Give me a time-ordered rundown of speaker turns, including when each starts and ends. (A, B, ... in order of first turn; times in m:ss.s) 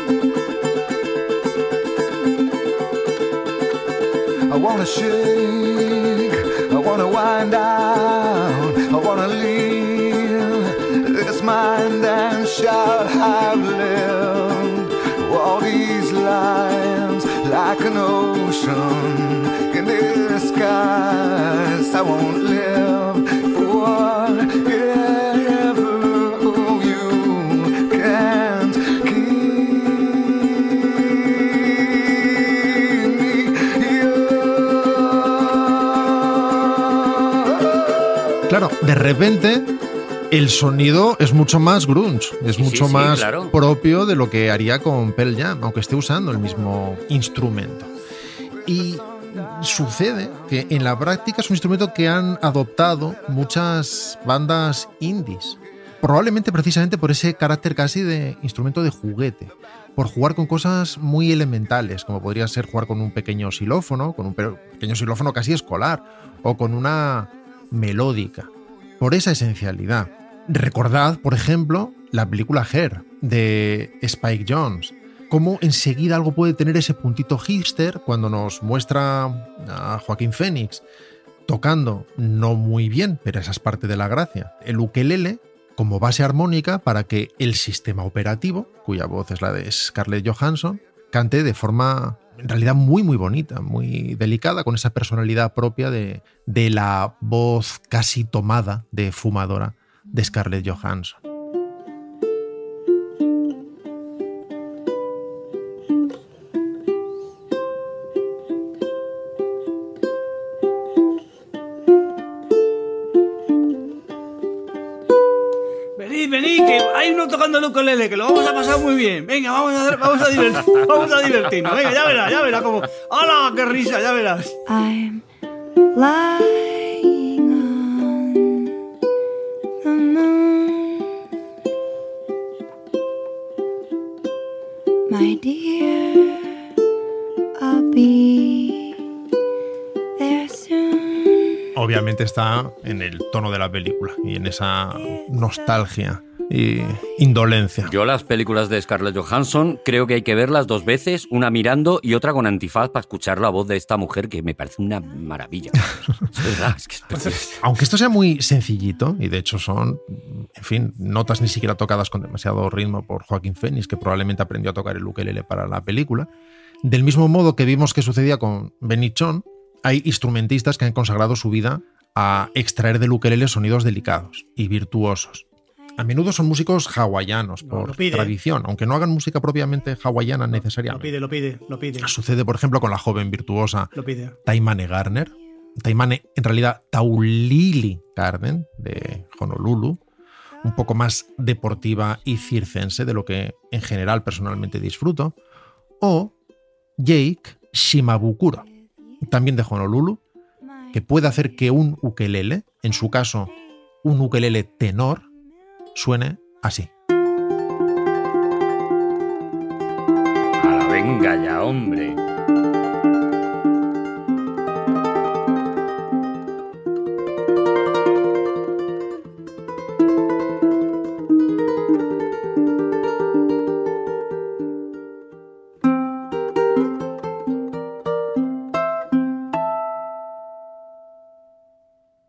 0:04.5-0:38.4 A
0:38.5-0:39.7 B
0:40.3-0:47.9 B
0:42.6-0:43.5 C
0:48.6-1:08.5 B
1:09.0-1:20.8 B
1:21.5-1:41.2 B
1:56.0-2:04.6 D
2:04.7-2:05.2 E
2:05.9-2:08.7 E
2:09.8-2:11.0 E
2:15.1-2:16.6 E
2:17.6-2:18.9 E
2:20.2-2:21.6 E
2:21.8-2:27.9 B
2:27.8-2:37.4 C
2:37.1-2:37.6 D
2:37.6-2:46.3 B
2:46.8-2:55.4 B
2:56.0-3:01.1 B
2:57.6-2:58.3 D
3:00.9-3:02.1 D
3:02.0-3:03.9 B
3:03.9-3:04.4 D
3:04.4-3:10.0 B
3:10.6-3:15.3 B
3:16.0-3:16.3 B
3:17.0-3:18.6 B
3:19.2-3:20.2 B
3:20.9-3:23.5 B
3:24.0-3:25.2 B
3:25.9-3:26.9 B
3:30.6-3:32.2 C